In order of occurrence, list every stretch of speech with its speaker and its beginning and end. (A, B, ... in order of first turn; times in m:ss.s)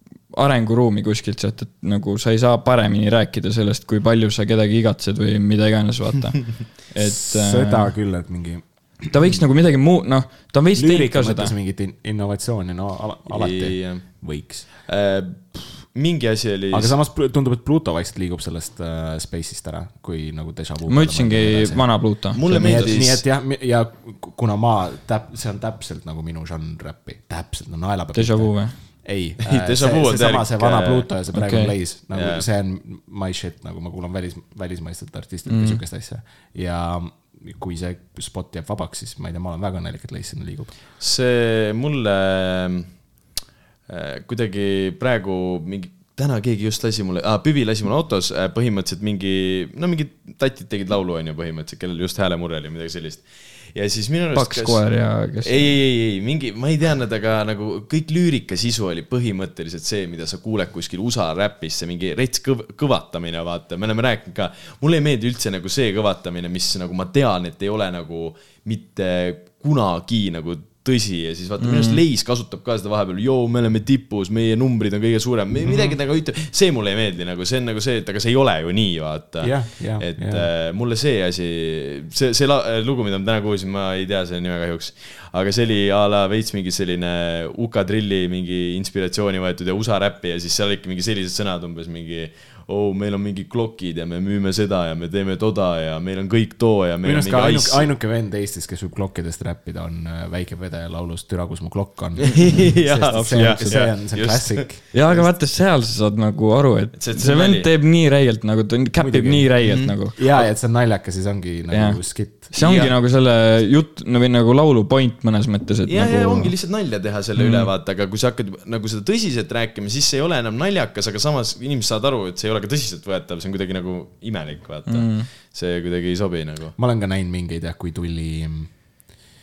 0:00.3-0:07.9 A
0:07.0-0:09.4 B
0:09.1-0:11.6 A
0:10.7-0:14.7 B
0:13.3-0:17.0 C
0:16.7-0:40.7 B
0:20.9-0:22.8 A
0:22.3-0:23.2 C
0:28.1-0:28.8 A
0:29.4-0:31.1 C
0:31.3-0:31.8 A
0:32.1-0:32.4 C
0:35.5-0:35.8 A
0:41.0-0:43.0 C
0:43.9-1:37.9 C
0:54.4-0:55.8 A
1:11.6-1:12.0 A
1:15.6-1:16.0 B
1:19.4-1:20.5 B
1:37.0-1:44.9 B
1:42.2-1:45.3 C
1:43.2-1:43.9 A
1:44.9-1:50.2 A
1:46.9-1:47.7 C
1:49.0-1:52.5 B
1:49.7-1:50.4 C
1:51.7-1:56.6 A
1:52.6-1:53.0 C
1:55.9-2:06.8 C
1:57.4-1:57.7 A
2:04.9-2:05.3 A
2:06.8-2:08.7 B